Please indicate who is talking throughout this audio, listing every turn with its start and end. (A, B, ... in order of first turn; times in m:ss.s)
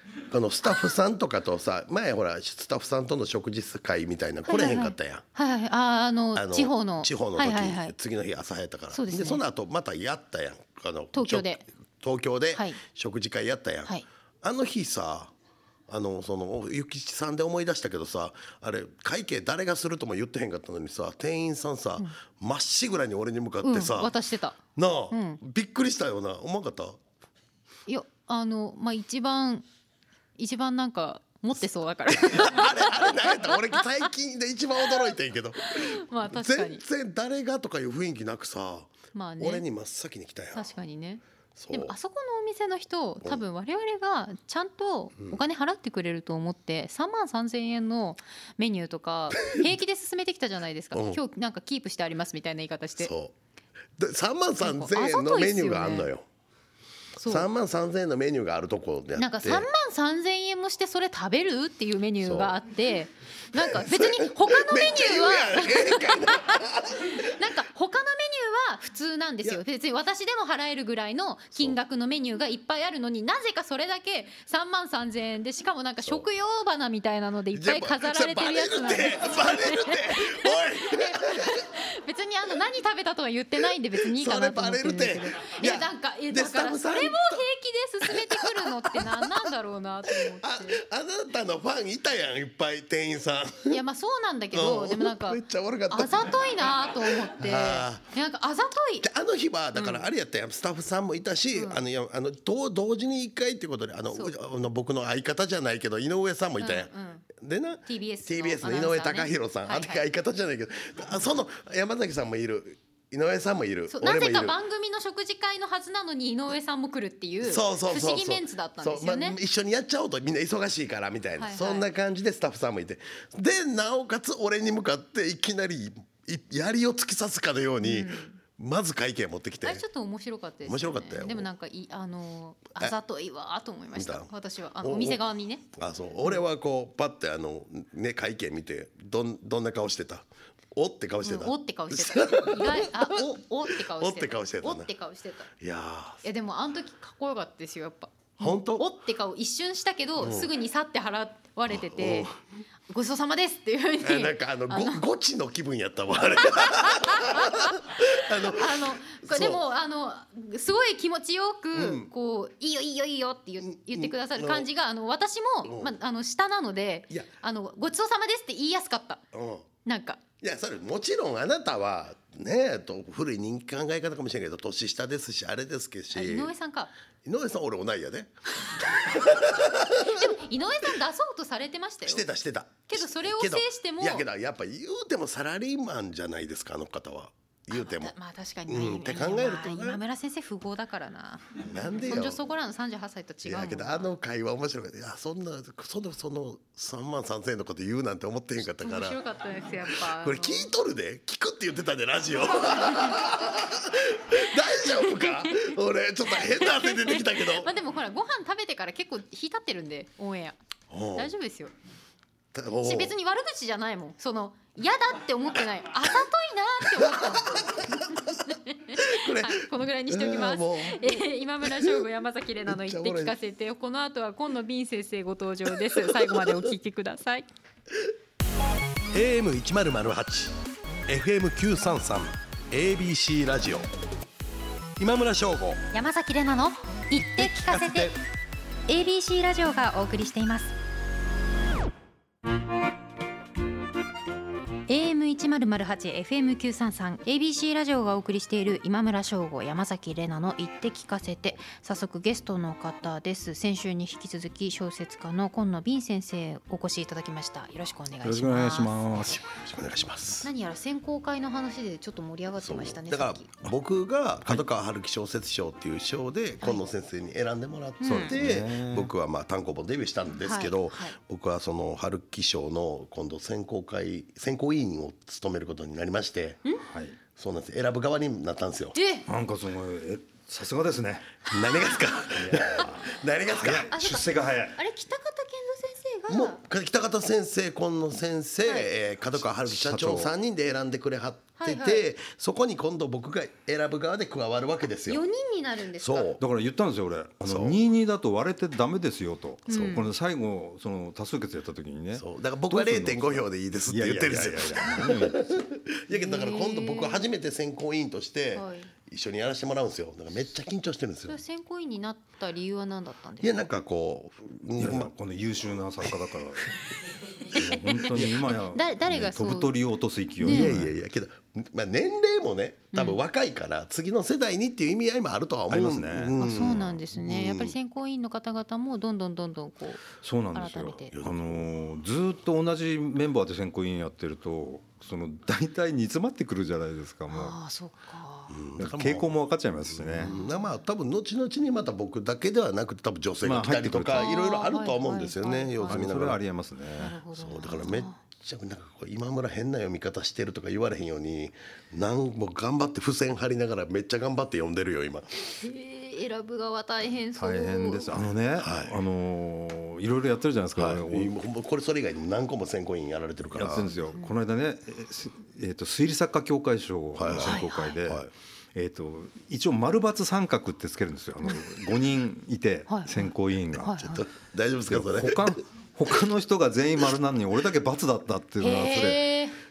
0:00.3-0:05.2 A
0:04.4-0:07.9 B
0:06.3-0:15.3 A
0:08.9-0:09.4 B
0:11.1-0:11.6 B
0:12.5-0:12.8 B
0:15.9-0:24.1 A
0:23.6-0:24.6 B
0:24.8-0:27.0 A
0:25.1-0:25.4 B
0:27.9-0:29.6 B
0:30.4-0:34.1 B
0:32.1-0:40.8 A
0:34.8-0:35.1 B
0:35.6-0:36.8 B
0:39.1-0:39.6 B
0:40.5-0:53.1 B
0:41.6-0:41.9 A
0:49.3-0:49.7 A
0:50.9-0:51.2 A
0:53.0-0:53.3 A
0:54.0-0:56.2 A
0:54.6-0:56.1 B
0:57.2-0:57.5 B
0:57.2-0:59.7 A
0:59.2-1:30.8 B
1:02.2-1:02.6 A
1:03.6-1:07.3 A
1:17.5-1:21.6 A
1:24.0-1:27.4 A
1:28.0-1:29.5 A
1:30.2-1:33.8 A
1:33.7-1:39.1 B
1:34.5-1:38.1 A
1:39.0-1:54.6 A
1:39.8-1:40.1 B
1:41.5-1:41.8 B
1:46.6-1:47.2 B
1:47.9-1:50.0 B
1:53.9-1:59.4 B
1:57.4-2:09.8 A
2:01.4-2:01.9 B
2:07.8-2:08.4 B
2:09.6-2:15.6 B
2:10.6-2:11.5 A
2:13.9-2:15.2 A
2:15.7-2:24.9 A
2:21.2-2:25.5 B
2:25.6-2:26.2 A
2:26.2-2:32.3 B
2:28.4-2:28.9 A
2:30.2-2:30.5 A
2:31.7-2:32.3 A
2:32.9-2:35.0 B
2:34.0-2:39.6 A
2:36.4-2:49.2 B
2:41.7-2:42.1 A
2:43.6-2:44.6 A
2:45.6-2:45.9 A
2:49.3-2:49.6 A
2:49.8-2:50.2 B
2:50.4-2:56.5 A
2:56.1-2:56.9 B
2:57.2-3:00.4 A
2:58.5-3:02.2 B
3:02.0-3:08.1 A
3:02.9-3:04.2 B
3:07.7-3:14.1 B
3:08.7-3:10.0 A
3:11.6-3:12.4 A
3:13.4-3:19.2 A
3:18.7-3:20.7 B
3:19.8-3:27.7 A
3:22.7-3:23.2 B
3:24.5-3:25.8 B
3:26.3-3:30.6 B
3:30.9-3:31.3 A
3:31.1-3:31.7 B
3:32.5-3:33.1 A
3:32.8-3:47.5 B
3:36.9-3:38.4 A
3:39.0-3:42.0 A
3:42.6-3:43.3 A
3:45.9-3:46.6 A
3:49.1-3:50.6 A
3:51.1-3:53.9 A
3:55.0-3:55.8 A
3:55.9-3:58.1 B
3:57.3-3:58.1 A
3:58.9-4:00.8 B
4:04.9-4:19.0 B
4:18.2-4:19.4 C
4:19.2-4:20.5 A
4:20.4-4:23.5 B
4:22.6-4:36.6 A
4:28.0-4:28.4 B
4:28.0-4:29.1 C
4:30.4-4:31.2 B
4:36.8-4:37.2 C
4:37.4-4:39.0 A
4:38.9-4:39.2 B
4:39.2-4:41.3 C
4:41.5-4:43.9 A
4:42.3-4:44.8 C
4:43.9-4:46.6 B
4:46.3-4:55.2 A
4:48.6-4:48.9 B
4:49.4-4:50.3 C
4:51.6-4:52.1 B
4:55.1-4:56.3 B
4:56.0-4:56.4 A
4:56.4-5:05.6 C
4:57.4-4:57.8 A
4:59.7-5:00.1 B
5:02.1-5:11.4 A
5:06.1-5:07.3 B
5:08.5-5:08.9 B
5:11.3-5:13.5 B
5:13.4-5:15.1 A
5:14.8-5:16.7 C
5:17.5-5:19.7 B
5:17.5-5:20.9 C
5:20.4-5:20.8 B
5:20.4-5:27.8 A
5:22.9-5:23.2 B
5:25.7-5:26.9 C
5:26.4-5:31.1 B
5:30.2-5:37.5 C
5:31.1-5:31.7 A
5:37.3-5:38.6 B
5:38.5-5:39.3 A
5:38.8-5:40.3 C
5:39.8-5:46.4 A
5:40.2-5:40.7 B
5:43.4-5:44.3 C
5:44.1-5:46.0 B
5:45.9-5:47.2 C
5:47.0-5:48.2 B
5:47.4-5:55.4 A
5:55.6-5:58.1 B
5:57.4-6:01.4 C
5:58.6-5:59.0 A
6:00.8-6:03.9 A
6:03.5-6:14.1 C
6:03.8-6:04.3 B
6:07.1-6:08.3 A
6:07.4-6:08.0 B
6:12.9-6:14.2 B
6:14.0-6:15.6 A
6:14.9-6:19.3 C
6:18.6-6:19.6 B